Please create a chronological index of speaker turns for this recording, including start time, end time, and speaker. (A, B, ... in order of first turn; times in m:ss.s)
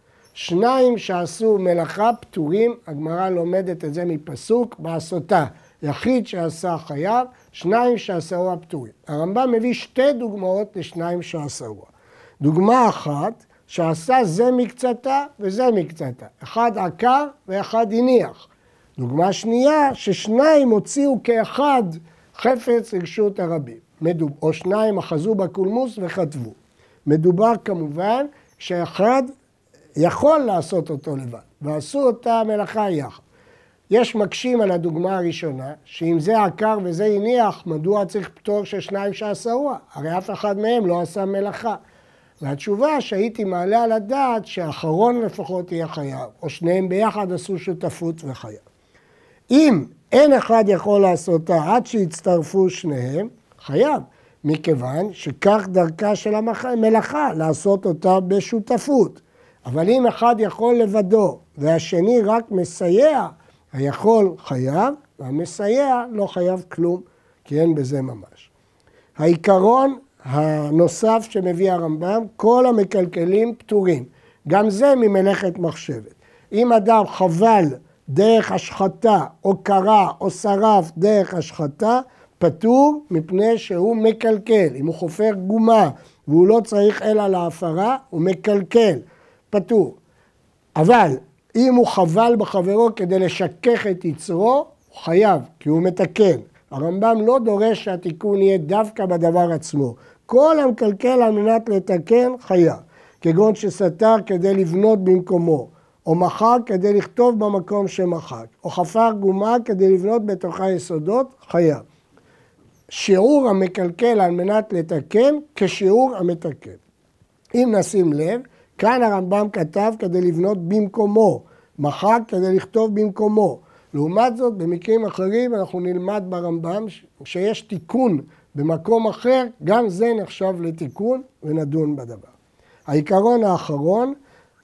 0:00.4-0:11.9 A
0:12.4-0:29.3 A
0:30.0-0:33.2 A
0:33.9-0:41.8 A
0:42.4-0:48.6 A
0:49.5-1:08.5 A
1:09.2-1:30.0 A
1:30.8-1:51.8 A
1:52.9-1:56.8 A
1:57.5-2:12.3 A
2:12.9-2:14.1 A